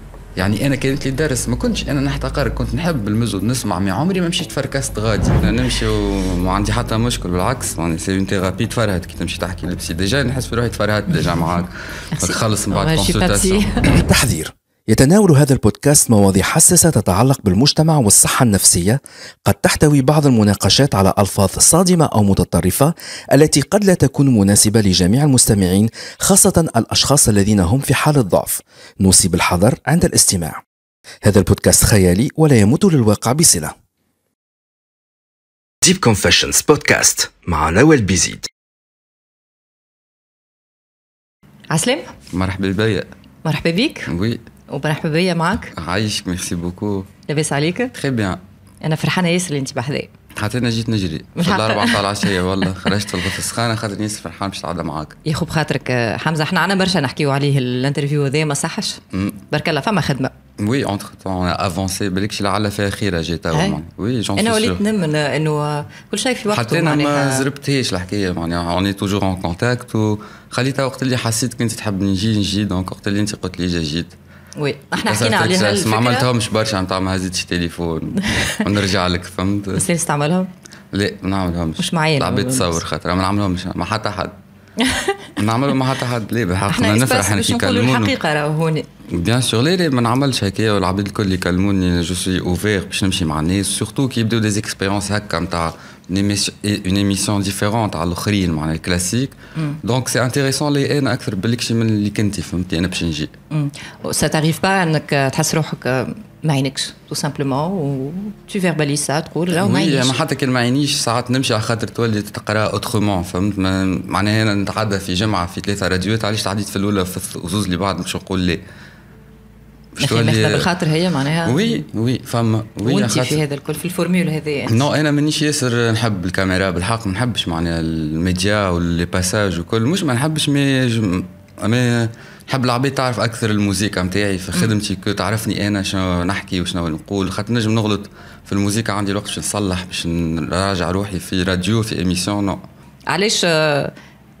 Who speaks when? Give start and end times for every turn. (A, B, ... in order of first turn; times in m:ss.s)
0:00.4-0:13.7 A
0:12.2-0:13.9 B
0:13.9-0:30.6 C
0:31.2-0:33.7 C
0:35.8-0:38.5 C
0:41.7-0:42.1 B
0:42.3-0:43.1 A
0:43.4-0:44.1 B
0:44.1-0:44.4 A
0:44.7-0:45.7 B
0:45.7-0:47.1 A
0:47.3-0:47.9 B
0:47.9-0:48.4 A
0:48.8-0:50.1 B
0:50.3-0:55.2 A
0:51.4-0:52.0 B
0:55.2-1:00.3 B
0:59.1-0:59.4 A
1:00.6-1:04.8 A
1:03.5-1:03.8 B
1:04.4-1:07.4 B
1:06.5-1:14.1 A
1:14.6-1:16.2 B
1:15.0-1:19.8 A
1:19.8-1:20.5 B
1:20.9-1:24.3 A
1:21.8-1:22.8 B
1:24.8-1:25.3 B
1:25.4-1:28.1 A
1:26.7-1:28.8 B
1:29.1-1:43.3 A
1:43.5-1:50.2 B
1:49.5-1:58.6 A
1:59.9-2:00.7 A
2:00.0-2:01.8 B
2:01.4-2:03.4 A
2:02.8-2:04.8 B
2:04.7-2:22.6 A
2:23.1-2:23.9 B